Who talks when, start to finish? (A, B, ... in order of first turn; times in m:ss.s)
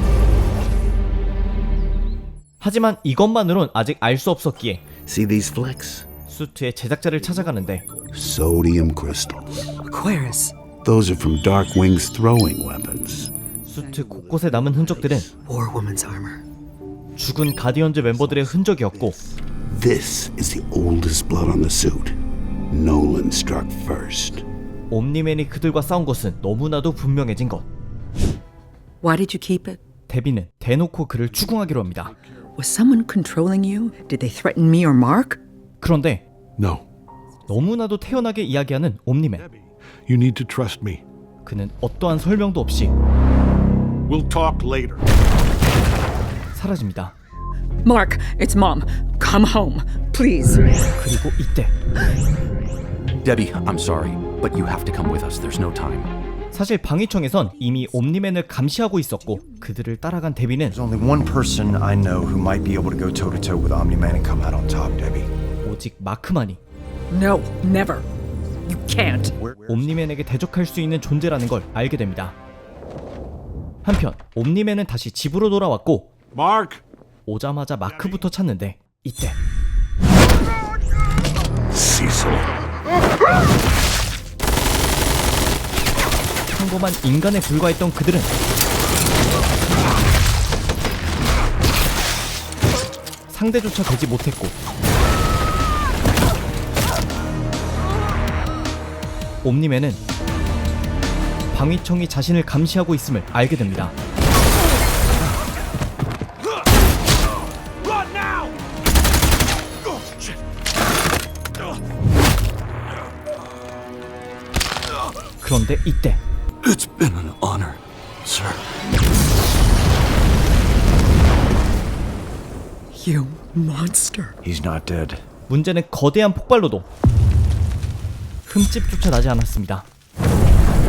0:02.6-0:04.8 A
0:05.0-0:06.0 B
0:06.3-0:07.8 A
0:08.1-0:09.8 B
0:09.8-0:10.5 C
0:10.8-0:13.3 B
0:13.7-0:15.3 A
0:15.4-0:16.4 C
0:17.2-0:19.2 A
0:19.7-0:22.2 B
0:22.7-0:24.4 B
0:24.9-0:27.7 A
0:29.0-0:29.8 C
0:30.1-0:32.1 A
0:32.6-0:35.4 C
0:35.8-0:36.2 A
0:36.6-0:36.8 D
0:37.5-0:39.5 A
0:40.1-0:41.0 D
0:41.4-0:42.9 A
0:44.1-0:45.0 D
0:46.5-0:47.1 A
0:47.8-0:50.8 C
0:51.0-0:51.7 A
0:53.2-0:56.1 E
0:56.5-1:00.8 A
1:00.7-1:05.3 F
1:05.6-1:06.6 A
1:07.1-1:08.0 C
1:08.6-1:09.3 C
1:09.4-1:09.9 F
1:09.7-1:12.4 A
1:13.8-1:16.1 A
1:16.3-1:16.8 D
1:17.3-1:19.4 A
1:21.8-1:22.4 D
1:26.5-1:28.3 A
1:33.3-1:34.6 A
1:39.4-1:40.0 A
1:41.5-1:43.9 A
1:55.4-1:56.2 A
1:56.6-1:58.6 B
2:02.9-2:04.4 C
2:04.4-2:05.2 F
2:05.5-2:06.9 A
2:08.5-2:09.9 A